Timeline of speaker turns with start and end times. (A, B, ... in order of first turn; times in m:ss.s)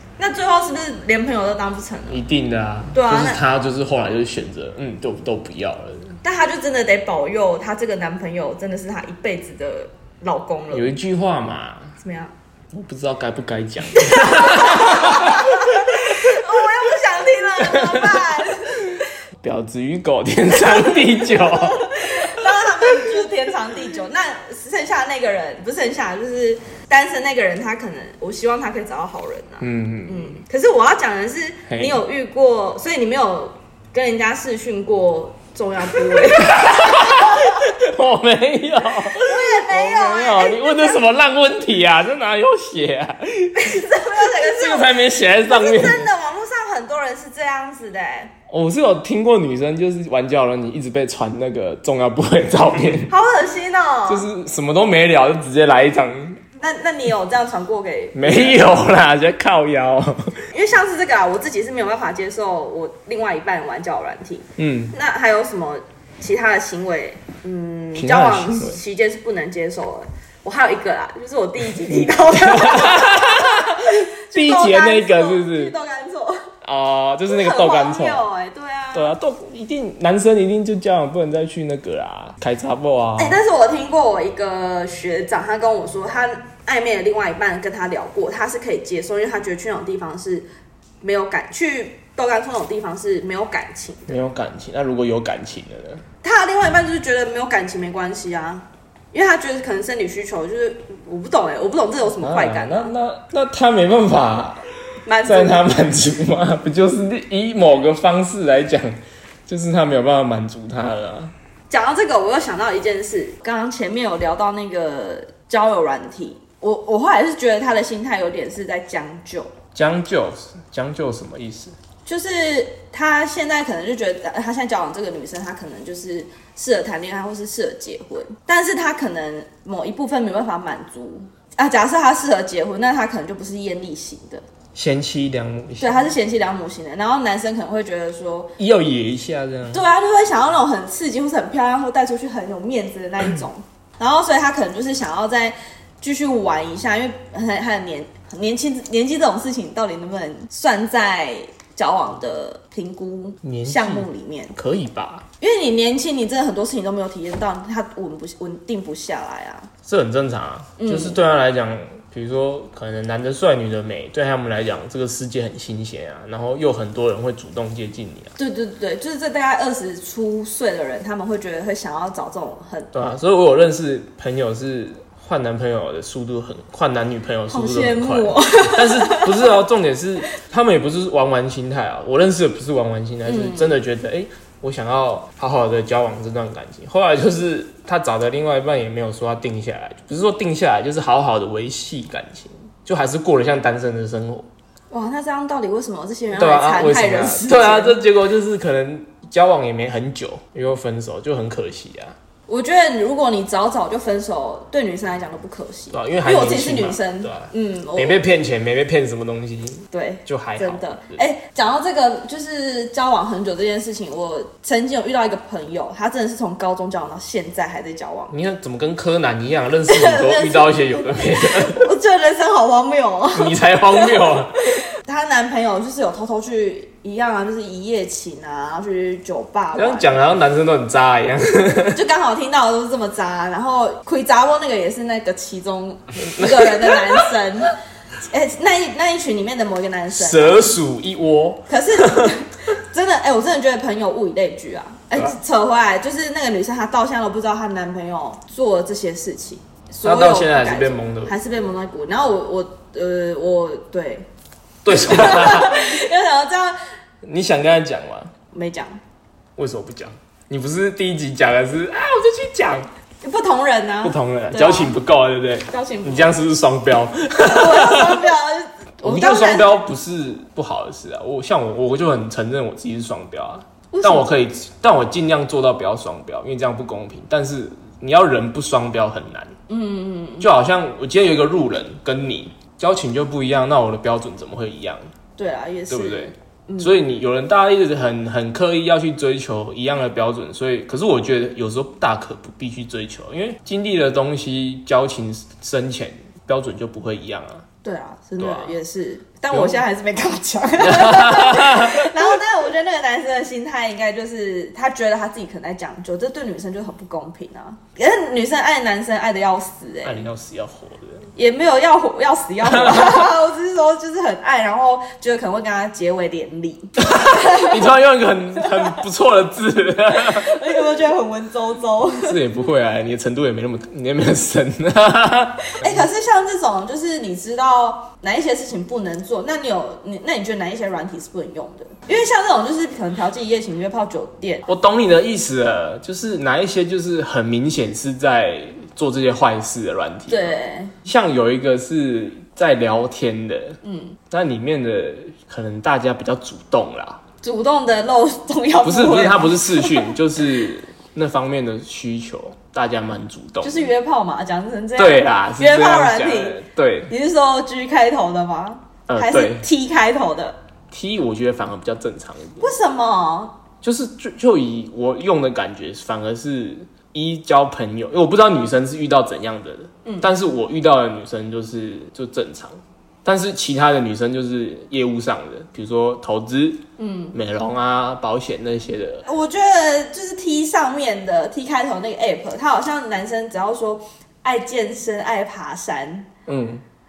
0:00.2-0:02.2 A
0:02.1-0:06.2 B
0:02.9-0:03.4 A
0:06.2-0:10.9 A
0:10.7-0:11.9 B
0:12.0-0:12.3 A
0:12.7-0:16.4 B
0:14.0-0:19.0 A
0:17.6-0:18.3 B
0:19.4-0:23.1 B
0:20.6-0:37.5 A
0:29.6-0:30.4 B
0:31.7-0:32.0 B
0:36.1-0:46.1 B
0:39.1-0:41.0 A
0:43.5-0:48.3 A
0:48.5-0:53.1 B
0:53.1-0:54.3 A
0:54.1-0:56.4 B
0:56.6-0:58.6 A
0:58.1-1:00.4 B
1:00.5-1:16.5 A
1:04.6-1:04.9 B
1:07.9-1:08.8 B
1:11.8-1:15.7 B
1:16.6-1:18.2 B
1:17.3-1:19.1 A
1:18.9-1:23.4 B
1:23.2-1:30.5 A
1:31.0-1:34.2 A
1:34.1-1:36.0 B
1:36.2-1:42.9 A
1:42.2-1:44.6 B
1:45.0-1:45.6 A
1:45.2-1:51.3 B
1:51.7-1:59.5 A
1:59.7-2:01.8 B
2:02.0-2:14.4 A
2:14.7-2:16.0 B
2:15.8-2:18.5 A
2:18.6-2:19.8 B
2:19.7-2:34.6 A
2:33.4-2:35.2 B
2:35.4-2:39.7 A
2:39.8-2:48.3 B
2:40.8-2:41.2 A
2:48.4-2:52.9 A
2:52.9-3:14.5 B
2:57.5-2:59.5 A
3:03.2-3:03.8 A
3:14.9-3:18.0 A
3:16.3-3:22.2 B
3:22.5-3:28.2 A
3:25.9-3:31.2 B
3:29.9-3:38.3 A
3:38.3-3:41.9 B
3:39.9-3:50.2 A
3:43.3-3:44.8 B
3:49.7-3:52.0 B
3:51.9-3:57.8 A
3:56.3-3:57.3 B
3:58.3-4:00.7 A
4:00.1-4:02.3 B
4:01.7-4:14.3 A
4:10.0-4:11.4 B
4:14.8-4:15.8 B
4:14.9-4:16.8 A
4:17.2-4:18.3 B
4:18.5-4:19.0 A
4:19.6-4:22.9 B
4:23.2-4:24.9 A
4:24.0-4:28.3 B
4:25.7-4:26.4 A
4:27.4-4:29.8 A
4:29.0-4:39.5 B
4:33.9-4:34.3 A
4:39.7-4:40.5 A
4:40.4-4:45.0 B
4:45.4-4:47.0 A
4:45.9-4:57.6 B
4:57.8-5:10.2 A
4:58.4-4:58.8 B
4:59.5-4:59.8 B
5:00.8-5:02.2 B
5:10.0-5:11.3 B
5:11.4-5:17.9 A
5:12.6-5:13.3 B
5:17.0-5:20.6 B
5:20.1-5:22.4 A
5:22.1-5:26.1 B
5:25.7-5:34.7 A
5:34.7-5:43.8 B
5:40.3-5:40.9 A
5:43.8-5:44.2 A
5:44.3-5:47.2 B
5:47.4-5:50.1 A
5:48.8-5:53.8 B
5:53.6-6:00.6 A
5:55.0-5:57.1 B
5:59.1-5:59.7 B
6:00.9-6:02.7 B
6:02.6-6:03.6 A
6:03.8-6:19.2 B
6:10.0-6:10.3 A
6:17.0-6:17.4 A
6:19.2-6:26.3 A
6:26.4-6:26.8 B